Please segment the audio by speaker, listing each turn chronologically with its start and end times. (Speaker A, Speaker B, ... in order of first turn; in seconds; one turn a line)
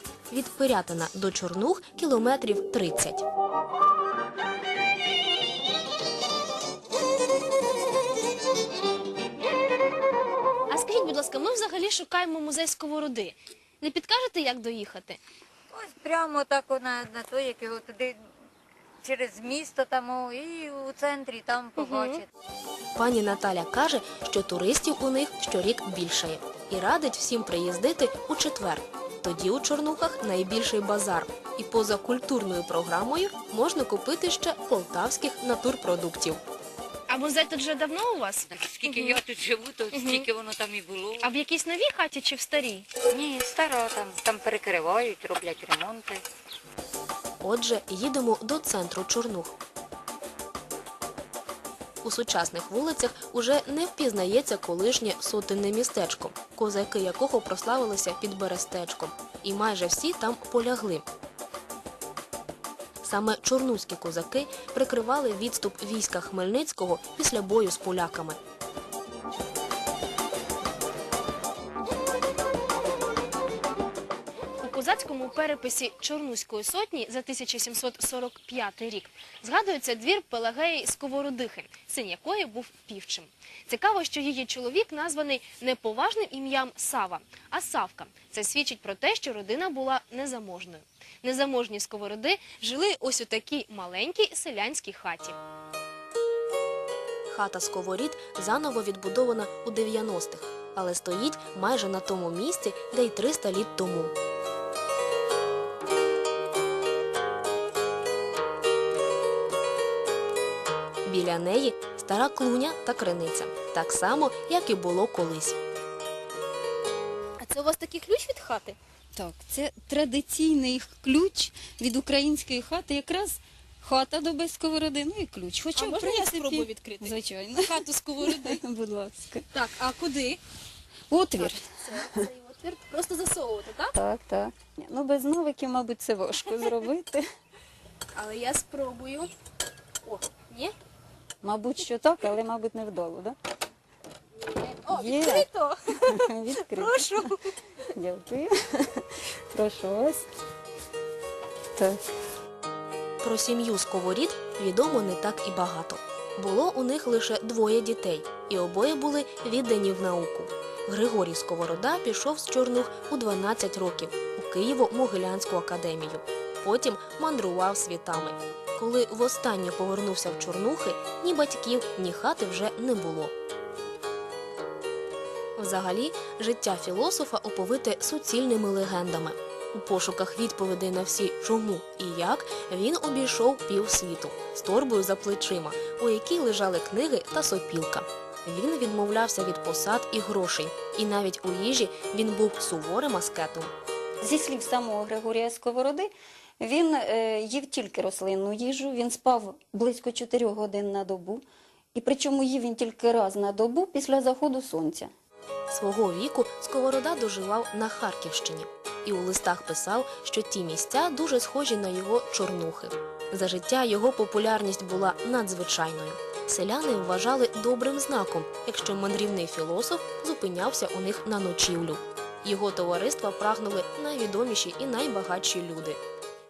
Speaker A: 0.3-3.2
Speaker B: 10.7-15.2
Speaker C: 15.7-18.2
Speaker C: 19.0-22.3
Speaker B: 21.8-22.2
Speaker A: 22.9-36.4
Speaker B: 37.1-39.2
Speaker C: 38.5-41.4
Speaker B: 39.9-40.3
Speaker B: 41.2-42.9
Speaker C: 43.1-46.2
Speaker A: 47.4-49.5
Speaker A: 52.0-61.0
Speaker A: 63.0-68.4
Speaker B: 74.6-95.3
Speaker A: 97.3-104.1
Speaker A: 111.0-115.6
Speaker B: 117.4-118.8
Speaker D: 119.1-129.4
Speaker B: 125.7-128.6
Speaker B: 129.5-130.4
Speaker D: 131.1-132.3
Speaker B: 131.4-133.9
Speaker D: 133.9-137.2
Speaker B: 136.5-136.8
Speaker B: 138.1-139.3
Speaker B: 140.0-140.7
Speaker D: 141.4-143.3
Speaker B: 144.5-147.6
Speaker D: 144.9-145.5
Speaker D: 146.0-147.2
Speaker D: 147.9-150.2
Speaker A: 153.2-173.3
Speaker A: 175.6-193.7
Speaker D: 194.2-196.1
Speaker D: 196.6-205.1
Speaker A: 205.7-226.0